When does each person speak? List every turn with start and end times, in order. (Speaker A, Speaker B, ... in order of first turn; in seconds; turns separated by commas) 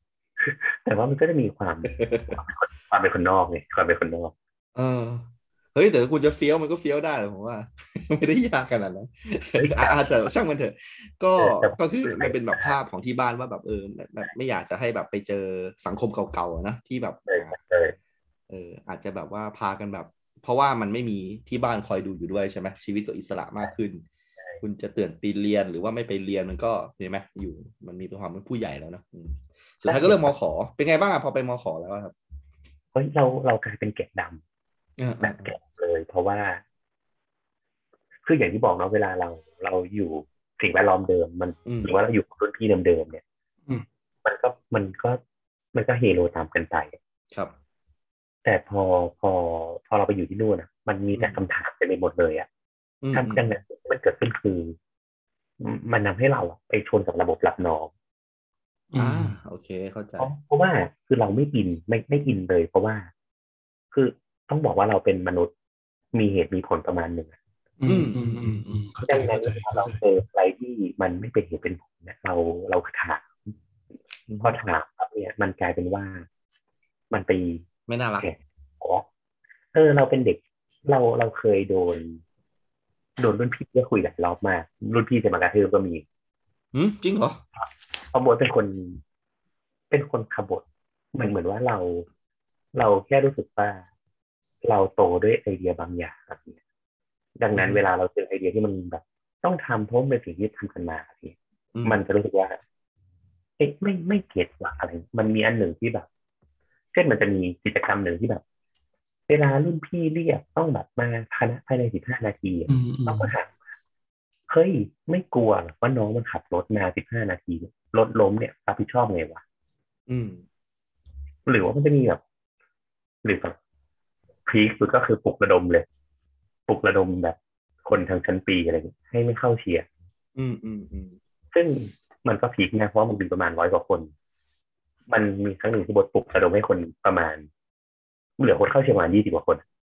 Speaker A: 0.4-4.3, Speaker B: 1.9-2.4, Speaker B: 4.7-17.5, Speaker A: 9.6-10.0, Speaker A: 11.4-12.7, Speaker A: 17.3-17.9, Speaker B: 18.5-24.0, Speaker B: 24.6-32.1, Speaker A: 29.8-30.3, Speaker A: 32.9-34.4, Speaker B: 35.0-35.5, Speaker A: 35.2-36.6, Speaker A: 38.2-43.2, Speaker B: 41.6-41.9, Speaker A: 44.2-45.2, Speaker A: 45.7-47.0, Speaker A: 48.4-52.5, Speaker B: 51.1-51.4, Speaker B: 53.0-53.5, Speaker A: 53.1-54.8, Speaker A: 55.6-57.9, Speaker C: 58.9-59.4, Speaker B: 59.0-60.3, Speaker A: 60.2-63.1, Speaker A: 63.9-65.5, Speaker A: 66.1-67.3, Speaker C: 67.8-70.0, Speaker B: 67.9-68.8, Speaker A: 69.1-73.5, Speaker B: 74.3-74.6, Speaker A: 74.4-76.2, Speaker A: 77.1-77.6, Speaker B: 77.9-78.2, Speaker A: 78.2-79.0, Speaker A: 79.7-82.2, Speaker A: 83.2-86.0, Speaker B: 86.7-87.4, Speaker A: 87.6-89.0, Speaker A: 89.9-92.0, Speaker A: 92.7-93.8, Speaker A: 94.6-96.6, Speaker A: 97.4-102.6, Speaker A: 103.6-106.1, Speaker A: 106.9-108.4, Speaker A: 109.3-113.6, Speaker C: 112.7-113.3, Speaker A: 114.5-119.4, Speaker B: 120.1-120.4, Speaker A: 121.5-122.2, Speaker A: 123.2-123.5, Speaker A: 124.5-125.8, Speaker A: 126.7-129.9, Speaker B: 130.3-131.2, Speaker A: 131.5-134.1, Speaker A: 135.1-137.5, Speaker A: 138.4-139.6